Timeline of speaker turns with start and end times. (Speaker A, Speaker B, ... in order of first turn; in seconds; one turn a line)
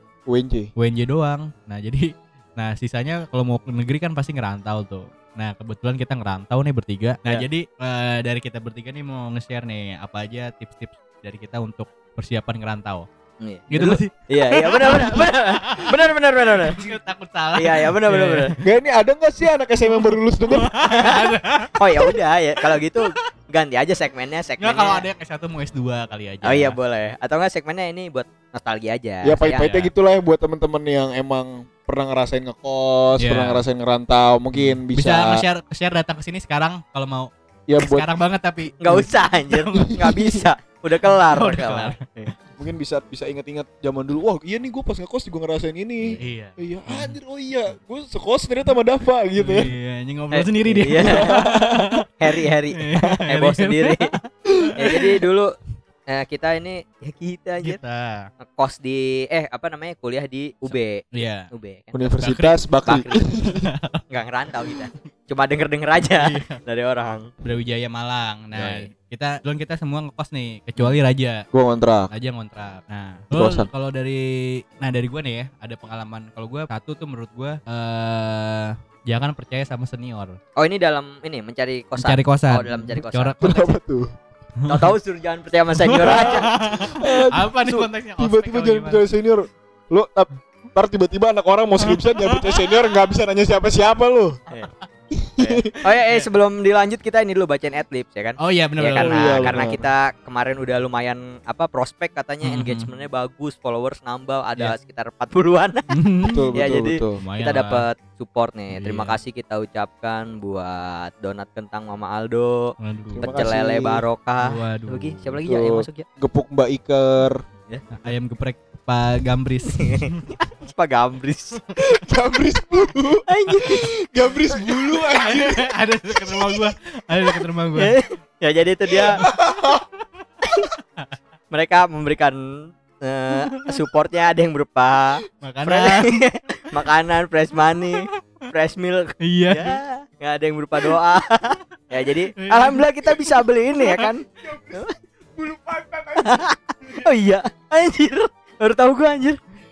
Speaker A: 0.3-0.7
Speaker B: 0.8-13.1
Speaker C: 13.4-16.9
Speaker B: 13.7-18.6
Speaker C: 17.5-18.5
Speaker A: 18.6-20.7
Speaker B: 19.9-22.2
Speaker C: 20.8-25.0
Speaker B: 22.7-23.2
Speaker B: 24.6-26.8
Speaker C: 26.4-29.7
Speaker A: 29.2-35.4
Speaker B: 29.5-29.9
Speaker B: 33.2-33.6
Speaker B: 34.5-39.9
Speaker A: 37.7-38.1
Speaker C: 38.8-42.3
Speaker A: 39.8-40.4
Speaker B: 41.0-42.0
Speaker A: 42.6-49.7
Speaker B: 46.1-47.2
Speaker B: 49.4-52.1
Speaker C: 50.3-51.4
Speaker A: 50.9-52.0
Speaker C: 52.2-54.1
Speaker B: 52.8-55.1
Speaker C: 54.8-55.5
Speaker C: 56.1-57.8
Speaker B: 57.6-58.3
Speaker C: 58.4-62.1
Speaker B: 60.6-61.5
Speaker A: 61.9-63.7
Speaker B: 62.2-62.7
Speaker C: 62.9-63.4
Speaker B: 63.4-64.0
Speaker C: 64.1-67.3
Speaker B: 64.6-64.9
Speaker B: 66.1-66.6
Speaker B: 67.4-71.4
Speaker A: 68.5-68.9
Speaker A: 71.5-72.1
Speaker B: 72.1-80.4
Speaker A: 73.3-73.7
Speaker C: 80.5-83.7
Speaker B: 82.0-83.7
Speaker A: 83.4-84.1
Speaker B: 84.6-84.9
Speaker C: 84.7-86.5
Speaker B: 85.8-89.0
Speaker A: 85.9-94.4
Speaker B: 91.8-92.7
Speaker A: 95.1-95.8
Speaker C: 95.4-105.9
Speaker B: 98.4-99.7
Speaker A: 99.0-99.8
Speaker B: 102.4-102.9
Speaker B: 105.9-106.6
Speaker A: 106.2-107.2
Speaker C: 106.5-116.0
Speaker B: 107.2-107.8
Speaker B: 108.7-109.2
Speaker B: 112.8-113.4
Speaker A: 113.1-114.0
Speaker B: 114.4-115.3
Speaker A: 115.4-117.4
Speaker B: 117.9-120.3
Speaker C: 119.7-121.6
Speaker A: 121.8-125.7
Speaker C: 123.3-123.9
Speaker B: 125.1-128.0
Speaker C: 127.8-129.2
Speaker A: 129.0-129.8
Speaker C: 130.4-130.7
Speaker C: 131.5-144.9
Speaker B: 133.3-133.7
Speaker B: 135.4-136.2
Speaker B: 139.2-139.8
Speaker B: 142.4-144.1
Speaker A: 144.4-146.9
Speaker C: 146.2-149.4